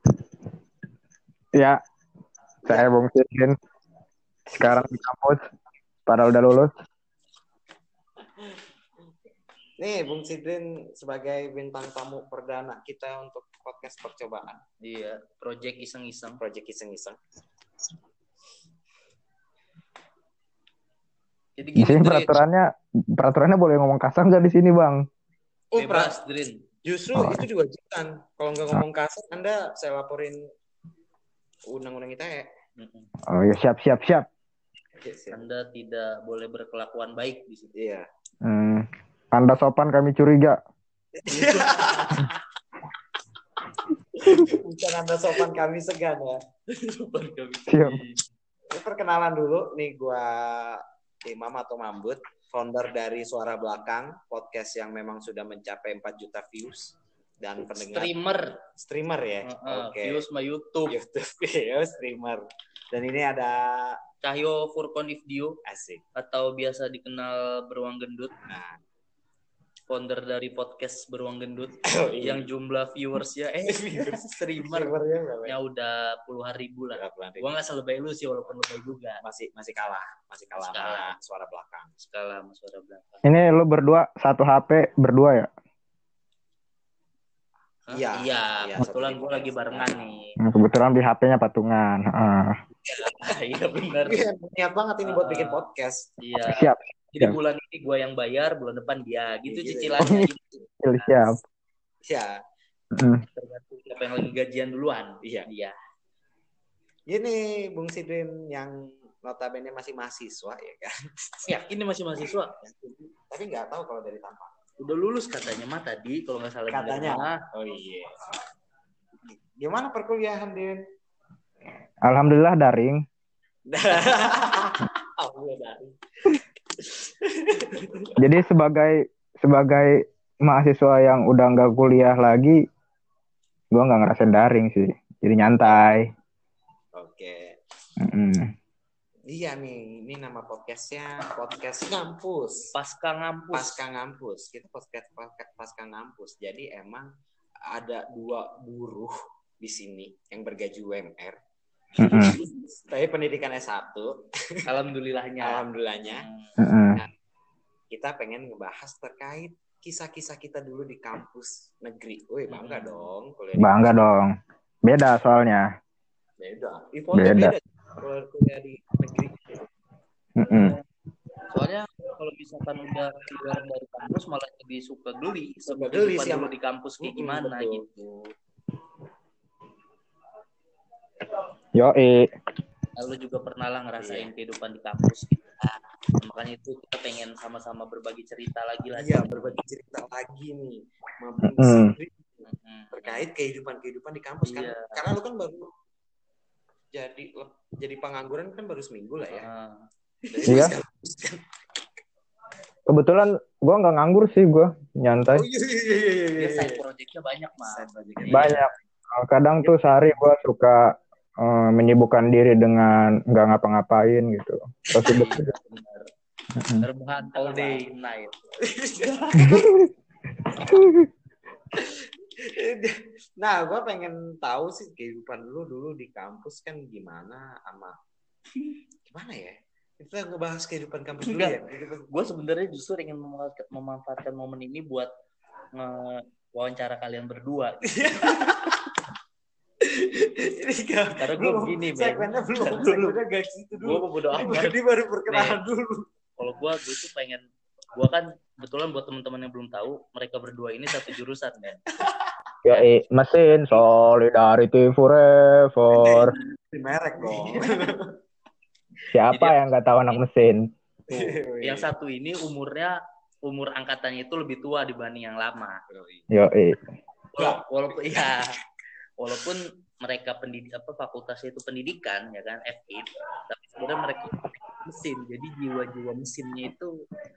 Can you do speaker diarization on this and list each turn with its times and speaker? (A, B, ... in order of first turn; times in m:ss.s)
0:01.5-0:01.8 A
0:02.7-0:03.6 A
0:04.6-0:05.4 A
0:06.1-0:06.7 A
0:09.8-0:14.6 B
0:14.8-0:16.4 C
0:16.4-0:17.2 B
0:21.6-0:22.4 C
0:21.8-0:25.0 A
0:25.7-0:26.2 B
0:25.8-0:26.6 C
0:26.8-0:30.4 B
0:27.1-0:27.4 A
0:31.7-0:32.5 B
0:32.8-0:33.1 C
0:33.3-0:34.2 A
0:35.0-0:35.4 B
0:35.3-0:37.7 C
0:37.7-0:38.0 B
0:38.4-0:40.6 A
0:41.1-0:42.3 B
0:41.3-0:42.2 C
0:44.2-0:46.4 B
0:46.7-0:48.2 C
0:47.7-0:48.0 A
0:48.7-0:58.1 B
0:57.6-0:58.6 C
0:58.8-1:00.2 B
0:59.4-1:01.0 C
1:00.9-1:04.0 B
1:04.2-1:05.6 C
1:05.6-1:06.0 B
1:06.1-1:08.3 C
1:08.5-1:08.8 B
1:09.9-1:14.9 C
1:11.8-1:12.5 B
1:13.7-1:15.6 B
1:15.4-1:19.2 C
1:16.9-1:17.4 B
1:19.2-1:21.9 B
1:20.6-1:21.1 C
1:22.0-1:23.2 C
1:23.2-1:25.5 A
1:27.9-1:30.4 C
1:27.9-1:30.1 B
1:30.4-1:32.6 A
1:32.9-1:34.2 C
1:32.9-1:33.2 B
1:34.0-1:36.1 B
1:35.0-1:35.6 C
1:36.2-1:41.2 C
1:36.5-1:37.4 A
1:39.5-1:40.2 B
1:40.0-1:40.3 A
1:40.8-1:41.4 A
1:42.0-1:42.3 B
1:42.9-1:43.2 A
1:43.3-1:45.7 C
1:47.1-1:51.5 B
1:51.4-1:52.5 C
1:52.6-1:54.5 B
1:54.8-1:57.4 C
1:56.7-1:58.2 B
1:59.5-2:00.8 B
2:02.0-2:03.0 A
2:03.7-2:04.9 B
2:05.2-2:05.9 C
2:07.2-2:08.1 B
2:08.2-2:12.6 A
2:13.7-2:16.1 A
2:15.6-2:15.9 B
2:16.9-2:17.6 B
2:18.0-2:18.5 A
2:19.3-2:22.7 B
2:22.7-2:23.8 C
2:23.5-2:27.1 B
2:27.7-2:31.4 B
2:32.0-2:32.3 A
2:32.0-2:34.6 B
2:34.6-2:36.5 C
2:35.4-2:36.3 B
2:36.6-2:37.0 A
2:37.9-2:44.0 B
2:42.5-2:43.1 C
2:43.6-2:45.7 A
2:46.4-2:49.7 B
2:47.1-2:47.5 A
2:50.4-2:50.8 A
2:50.5-2:50.8 C
2:51.5-2:57.8 C
2:55.7-2:58.3 B
3:01.8-3:02.3 A
3:03.0-3:09.6 C
3:04.0-3:04.3 B
3:09.0-3:15.7 B
3:11.5-3:11.9 A
3:12.5-3:13.2 C
3:14.4-3:14.9 C
3:16.9-3:19.5 B
3:19.3-3:19.8 C
3:20.3-3:21.4 B
3:22.9-3:25.4 A
3:25.3-3:26.8 B
3:26.3-3:28.7 C
3:27.6-3:28.6 B
3:28.3-3:30.8 A
3:31.4-3:35.5 A
3:34.9-3:36.1 C
3:36.5-3:36.8 A
3:36.8-3:38.3 C
3:37.3-3:37.8 B
3:38.6-3:39.8 B
3:39.4-3:39.9 A
3:40.7-3:41.1 A
3:41.7-3:48.0 B
3:49.1-3:52.1 B
3:51.2-3:55.1 C
3:55.7-3:58.4 C
3:57.9-3:58.8 B
3:59.8-4:06.0 B
4:01.2-4:03.2 C
4:03.8-4:05.6 C
4:06.4-4:07.4 C
4:07.9-4:11.8 C
4:12.6-4:16.3 A
4:15.9-4:18.1 B
4:17.3-4:17.9 C
4:19.1-4:21.3 A
4:19.3-4:19.6 C
4:21.1-4:21.9 B
4:21.6-4:25.8 C
4:25.9-4:26.2 B
4:26.3-4:26.8 A
4:27.3-4:28.5 C
4:27.4-4:28.4 B
4:29.2-4:36.9 C